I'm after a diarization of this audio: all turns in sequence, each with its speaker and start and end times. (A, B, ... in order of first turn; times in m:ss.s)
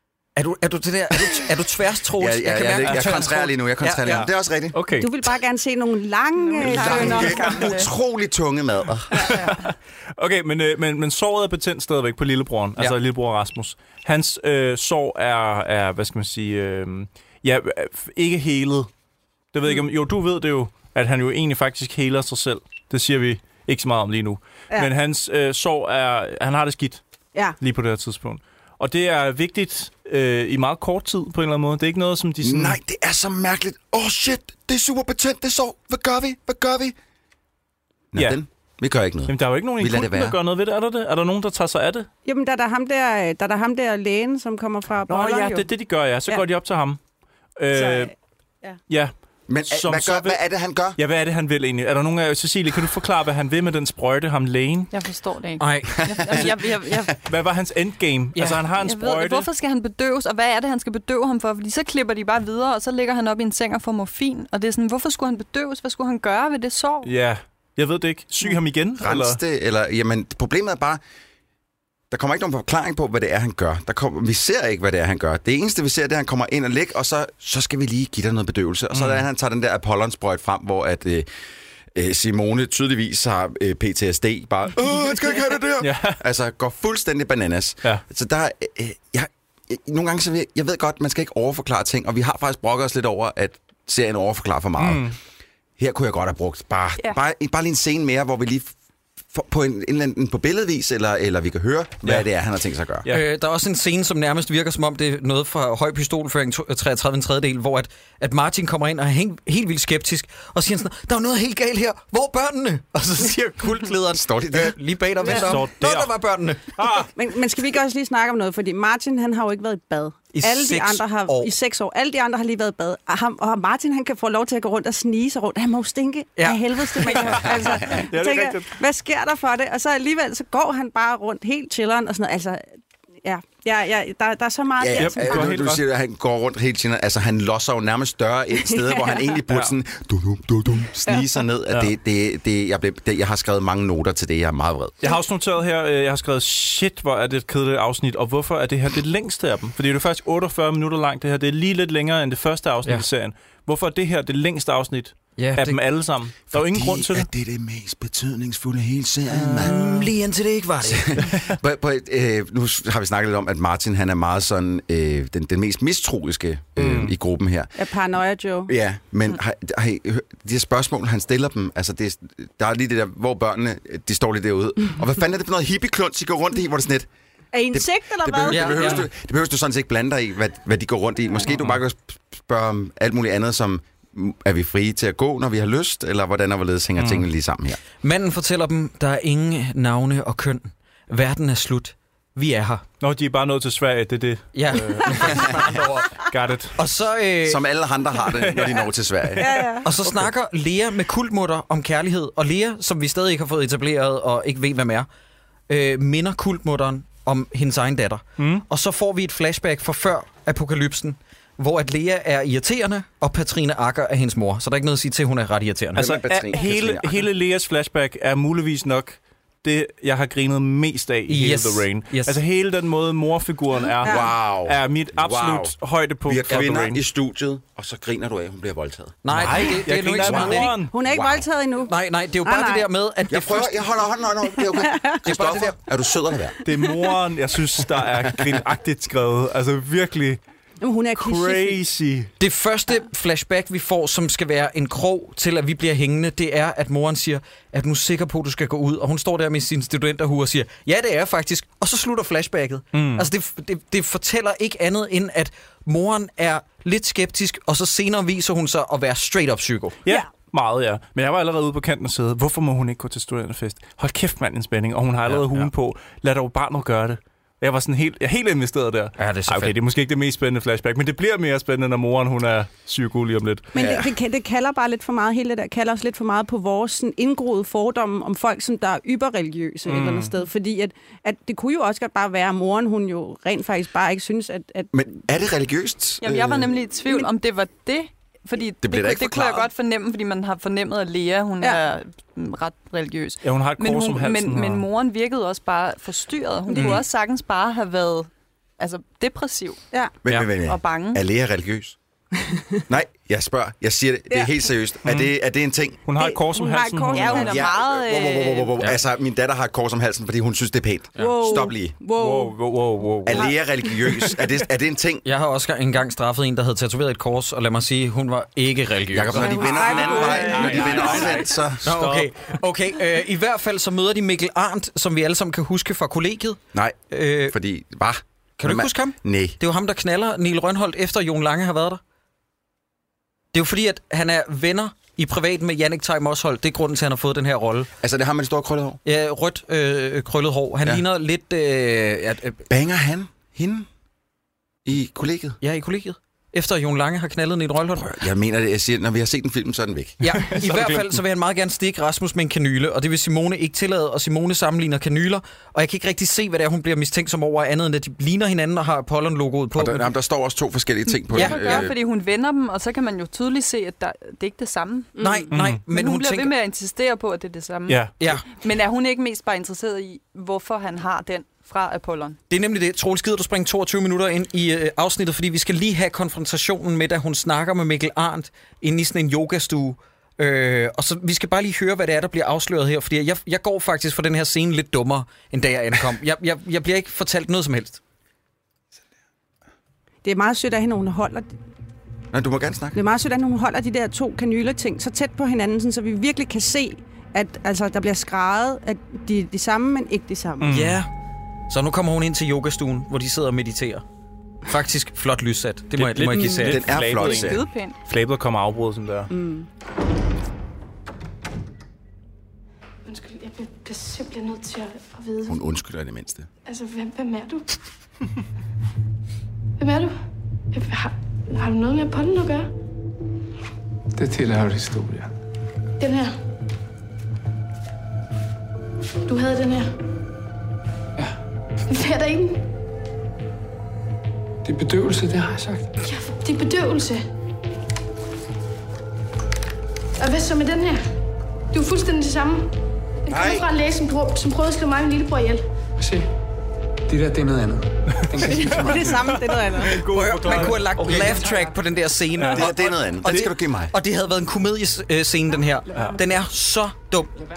0:00.4-0:04.3 A
0:02.2-0:04.8 B
0:02.8-0:03.1 C
0:04.1-0:05.1 C
0:05.0-0:07.8 D
0:06.4-0:07.9 E
0:06.6-0:09.4 B
0:09.2-0:09.5 D
0:09.2-0:18.9 C
0:19.5-0:27.0 C
0:27.6-0:32.8 C
0:32.4-0:37.0 B
0:38.1-0:40.4 B
0:39.3-0:42.1 C
0:42.3-0:45.7 D
0:45.1-0:47.0 C
0:47.6-0:48.1 C
0:47.7-0:48.1 D
0:48.9-0:50.4 C
0:49.5-0:51.0 B
0:51.0-0:54.9 C
0:54.9-0:57.1 E
0:55.6-0:56.3 A
0:56.0-0:56.5 B
0:57.3-0:59.5 C
0:58.4-0:58.6 A
0:58.8-1:07.1 E
1:07.0-1:09.4 C
1:09.0-1:11.0 B
1:12.1-1:21.3 B
1:18.9-1:19.2 C
1:21.9-1:35.1 B
1:25.8-1:26.2 C
1:34.8-1:35.2 C
1:35.8-1:38.7 B
1:39.3-1:43.1 B
1:43.1-1:57.1 A
1:54.2-1:54.8 B
1:55.2-1:56.1 C
1:56.8-1:57.1 C
1:57.2-2:12.6 D
2:00.3-2:01.5 A
2:06.4-2:07.3 A
2:07.2-2:08.7 C
2:13.2-2:15.5 D
2:14.8-2:25.0 B
2:15.0-2:15.8 C
2:18.7-2:19.4 D
2:25.0-2:37.3 C
2:35.4-2:35.8 A
2:36.5-2:40.1 B
2:39.3-2:41.3 A
2:40.8-2:47.7 B
2:46.8-2:47.1 C
2:47.8-2:48.7 D
2:48.7-2:57.1 B
2:57.5-2:59.1 D
2:57.7-3:07.8 B
2:58.5-2:59.1 A
3:07.0-3:07.3 C
3:08.0-3:12.8 A
3:13.0-3:15.5 C
3:14.5-3:17.6 A
3:16.3-3:16.8 C
3:17.4-3:19.6 B
3:18.3-3:20.2 C
3:19.4-3:19.9 D
3:19.8-3:25.1 A
3:25.7-3:36.1 A
3:28.4-3:28.6 C
3:36.0-3:37.2 B
3:36.0-3:47.0 C
3:41.3-3:42.4 A
3:44.0-3:44.3 D
3:44.0-3:45.7 B
3:46.3-3:51.5 B
3:49.2-3:50.8 A
3:49.3-3:50.9 C
3:50.6-3:52.9 D
3:51.9-3:53.8 A
3:53.3-3:56.6 B
3:54.6-3:55.2 D
3:55.2-3:55.8 A
3:56.6-4:00.4 C
4:00.8-4:01.8 D
4:01.2-4:02.3 C
4:02.4-4:20.0 A
4:12.9-4:13.3 C
4:20.0-4:33.7 C
4:25.3-4:25.7 A
4:29.2-4:29.8 A
4:33.7-4:44.9 D
4:33.8-4:34.1 B
4:39.9-4:40.3 C
4:44.9-4:46.7 B
4:46.2-4:59.8 E
4:48.8-4:49.7 B
4:53.4-4:54.9 C
4:56.7-4:57.0 D
4:56.8-4:57.0 C
5:00.2-5:02.0 B
5:00.6-5:01.2 E
5:02.9-5:06.0 B
5:05.0-5:05.3 C
5:06.0-5:07.6 C
5:06.2-5:07.7 D
5:07.1-5:08.8 E
5:07.3-5:12.0 B
5:11.2-5:11.6 A
5:11.2-5:12.5 D
5:12.2-5:13.5 C
5:13.2-5:15.2 B
5:15.2-5:19.9 A
5:19.1-5:22.0 B
5:19.3-5:21.4 D
5:19.8-5:22.3 C
5:21.8-5:27.6 A
5:27.5-5:29.6 B
5:28.6-5:32.0 A
5:33.5-5:37.9 A
5:38.0-5:39.0 B
5:39.0-5:42.6 A
5:42.7-5:43.9 B
5:44.8-5:45.6 B
5:45.6-5:48.2 A
5:48.0-5:51.0 B
5:50.2-6:00.1 A
5:59.8-6:02.0 B
6:01.1-6:05.2 E
6:01.3-6:01.9 A
6:05.2-6:05.5 D
6:05.2-6:06.6 A
6:05.5-6:05.8 C
6:05.9-6:12.4 E
6:07.9-6:08.1 C
6:08.2-6:08.5 A
6:12.5-6:28.0 A
6:30.2-6:31.5 D
6:32.3-6:33.0 B
6:32.9-6:40.8 D
6:40.6-6:41.0 C
6:40.6-6:41.1 A
6:41.7-6:44.0 A
6:44.7-6:46.9 A
6:46.0-6:49.3 C
6:46.4-6:47.6 B
6:47.2-6:48.0 E
6:49.3-6:49.7 D
6:53.0-6:55.7 F
6:55.5-6:56.5 B
6:56.7-6:57.7 F
6:59.8-7:00.2 F
7:00.7-7:02.7 F
7:04.2-7:05.3 G
7:06.0-7:06.4 F
7:09.3-7:10.0 F
7:11.9-7:12.7 F
7:14.6-7:15.9 G
7:16.0-7:17.2 F
7:20.2-7:21.0 F
7:21.7-7:22.8 F
7:23.3-7:25.6 F
7:23.3-7:23.7 B
7:26.0-7:26.3 G
7:27.1-7:29.4 G
7:28.2-7:31.4 C
7:28.5-7:30.0 D
7:30.1-7:37.3 A
7:32.4-7:32.7 C
7:32.5-7:33.9 B
7:35.9-7:36.2 C